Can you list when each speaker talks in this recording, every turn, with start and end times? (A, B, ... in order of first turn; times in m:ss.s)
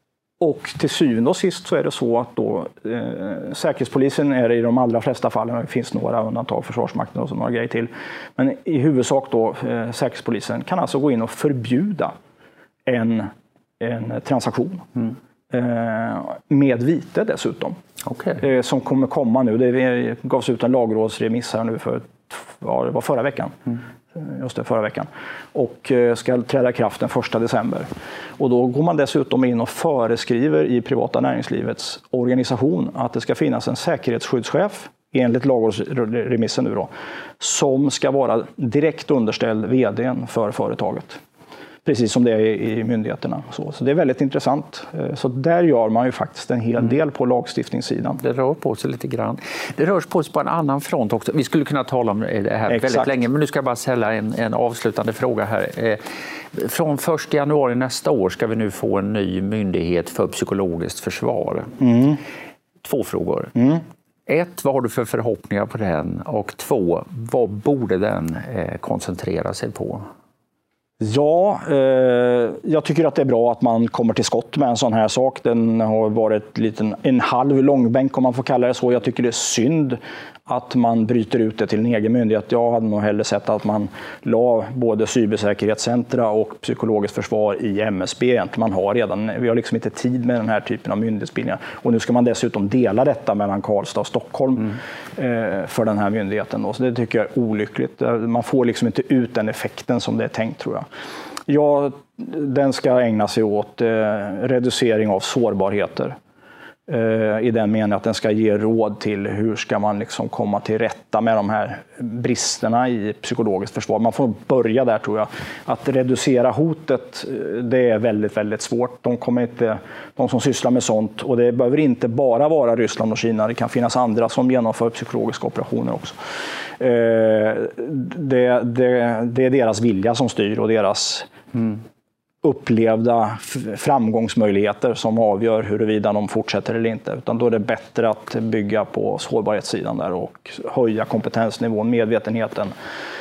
0:00.4-0:12.1 A
0:12.8-0:14.9 A
0:15.5-0:17.8 A
0:18.3-0:41.2 A
0:41.8-0:48.2 A
0:48.2-0:56.0 B
0:52.7-0:53.1 A
0:56.5-1:01.8 B
1:01.8-1:02.2 A
1:02.8-1:03.5 B
1:03.6-1:03.8 A
1:04.3-1:10.0 B
1:11.0-1:40.8 A
1:41.5-1:46.2 A
1:46.9-2:06.2 A
2:06.8-2:11.7 A
2:12.4-2:22.7 A